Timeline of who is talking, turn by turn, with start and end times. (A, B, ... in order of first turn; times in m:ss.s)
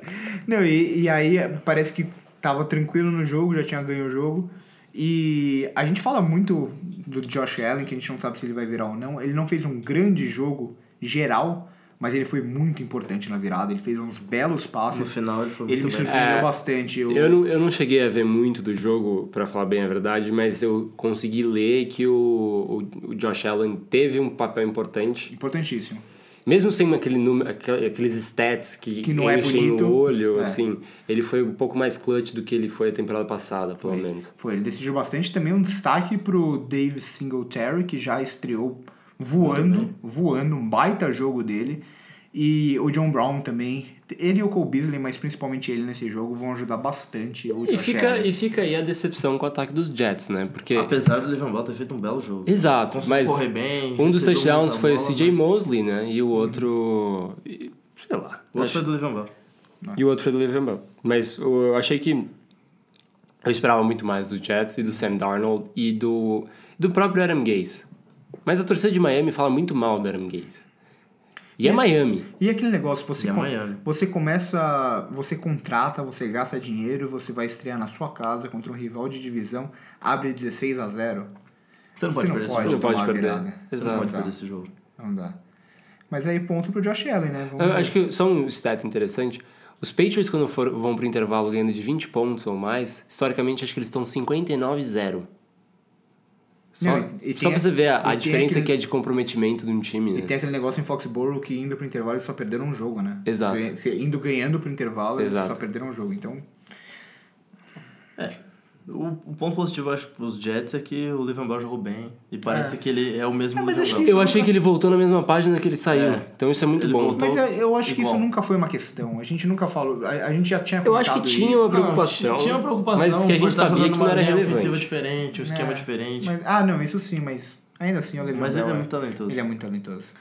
0:00.3-0:15.1 A
0:14.9-0:16.1 B
0:15.6-0:17.4 A
0:16.0-0:16.5 C
0:17.1-0:25.3 C
0:25.3-0:26.0 A
0:26.4-0:34.3 C
0:29.0-0:30.6 A
0:33.8-0:48.3 A
0:39.4-0:39.9 B
0:47.6-0:50.9 C
0:50.7-0:55.5 B
0:52.4-0:53.4 C
0:54.0-0:58.8 C
0:58.5-0:59.3 B
0:59.9-1:02.3 C
1:03.4-1:07.9 C
1:08.4-1:10.6 C
1:11.6-1:12.3 C
1:11.6-1:21.3 A
1:13.2-1:13.8 B
1:22.0-1:22.8 B
1:22.1-1:24.3 A
1:22.6-1:24.2 C
1:23.8-1:24.7 B
1:25.0-1:25.4 A
1:26.1-1:27.9 A
1:27.6-1:35.3 C
1:36.7-1:40.3 C
1:36.8-1:38.7 A
1:40.1-1:46.4 A
1:43.2-1:43.7 C
1:45.2-1:45.6 C
1:48.2-1:54.1 B
1:52.4-1:52.8 A
1:53.5-1:54.5 A
1:54.0-1:57.3 C
1:55.9-1:58.2 B
1:57.2-2:02.0 A
2:00.8-2:04.9 C
2:01.6-2:06.3 B
2:05.4-2:10.1 A
2:08.3-2:09.4 B